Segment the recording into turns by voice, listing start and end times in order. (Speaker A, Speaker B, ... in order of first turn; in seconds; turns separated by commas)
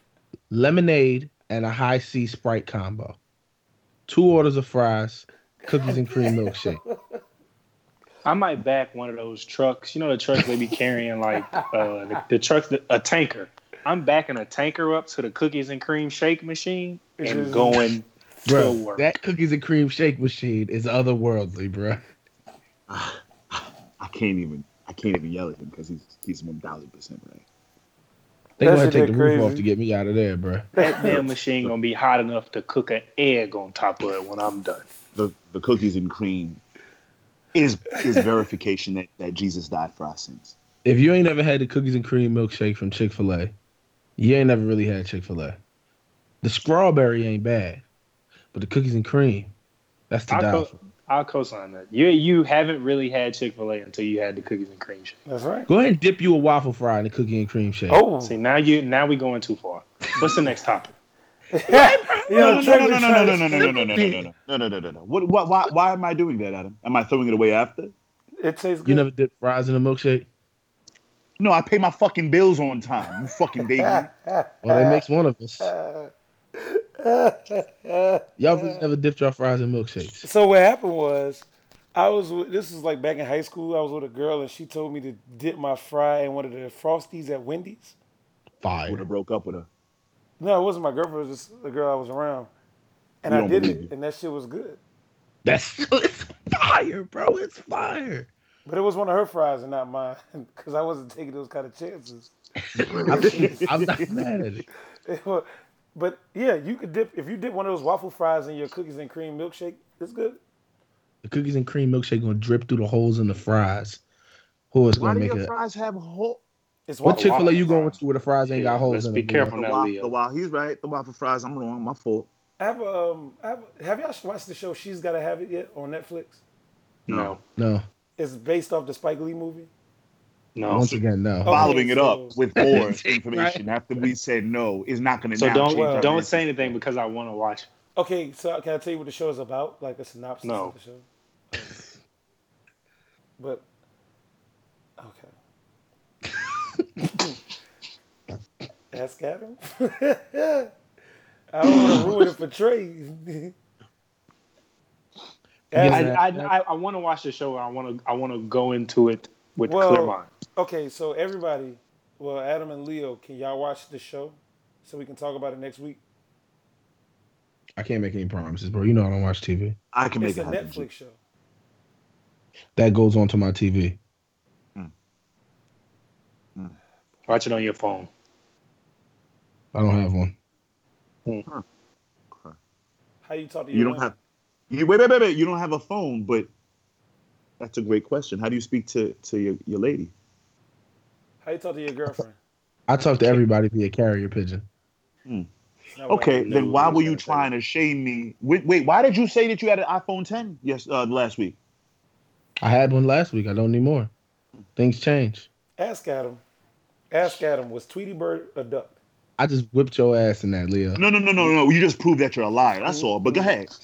Speaker A: 0.5-3.2, Speaker A: 4.1-6.8, Speaker B: 5.9-6.6, Speaker C: 8.2-19.1, Speaker B: 17.2-17.8, Speaker A: 18.5-22.0, Speaker D: 22.9-27.4, Speaker A: 28.6-31.2, Speaker B: 28.6-29.7, Speaker C: 30.8-34.9, Speaker B: 30.8-31.2, Speaker D: 35.1-36.6, Speaker D: 37.5-40.6, Speaker A: 40.8-43.5, Speaker A: 44.2-45.6, Speaker A: 46.4-47.8, Speaker A: 48.5-49.5, Speaker A: 50.1-50.7, Speaker C: 50.3-55.2, Speaker B: 55.3-55.7, Speaker A: 55.7-58.0, Speaker B: 57.9-58.3, Speaker C: 58.2-61.0, Speaker B: 61.5-64.3, Speaker D: 61.7-67.9, Speaker A: 61.8-62.9, Speaker B: 68.4-69.1, Speaker A: 68.8-70.3, Speaker D: 71.4-74.1, Speaker B: 73.8-75.0, Speaker A: 74.7-75.7, Speaker B: 75.6-78.8, Speaker A: 78.4-80.3, Speaker B: 80.2-88.0, Speaker A: 88.6-89.0, Speaker D: 88.9-89.7, Speaker B: 90.4-92.5, Speaker B: 93.2-94.8, Speaker D: 93.3-93.9, Speaker A: 95.5-98.3, Speaker B: 98.7-102.3, Speaker D: 102.8-104.1, Speaker A: 103.0-104.7, Speaker B: 103.1-103.6, Speaker B: 105.1-110.4, Speaker A: 111.2-114.0, Speaker A: 114.7-115.5, Speaker D: 115.0-116.4, Speaker B: 116.9-118.0, Speaker A: 117.0-119.6, Speaker C: 117.1-117.7, Speaker C: 118.5-120.1, Speaker D: 119.5-122.3, Speaker B: 122.6-126.4, Speaker C: 127.1-127.4, Speaker D: 127.1-127.3, Speaker A: 127.6-127.8, Speaker B: 128.2-129.7, Speaker C: 130.6-130.9, Speaker A: 130.7-131.8, Speaker D: 130.7-136.8, Speaker B: 131.5-132.4, Speaker A: 132.6-133.6, Speaker C: 135.4-137.7, Speaker B: 135.7-136.1, Speaker B: 138.0-141.8, Speaker C: 140.4-140.7, Speaker B: 143.4-143.6, Speaker B: 145.0-145.3, Speaker B: 148.9-150.7, Speaker B: 151.5-153.5, Speaker B: 155.7-156.1, Speaker A: 155.7-156.5, Speaker C: 155.8-160.3, Speaker B: 159.7-166.0, Speaker A: 167.8-169.8, Speaker D: 169.9-170.9, Speaker B: 170.2-171.2, Speaker A: 172.8-174.0, Speaker C: 177.3-178.1, Speaker A: 179.7-180.3, Speaker B: 183.2-184.1, Speaker D: 183.7-184.2, Speaker D: 184.7-186.5, Speaker D: 187.6-190.1, Speaker B: 191.4-192.4, Speaker A: 192.9-194.7, Speaker B: 196.0-197.5, Speaker D: 196.1-201.6, Speaker C: 196.4-197.2, Speaker A: 202.6-204.1, Speaker A: 204.8-205.5, Speaker B: 205.8-206.4, Speaker B: 207.1-208.9, Speaker A: 209.4-211.0, Speaker D: 211.0-213.7, Speaker B: 212.8-213.5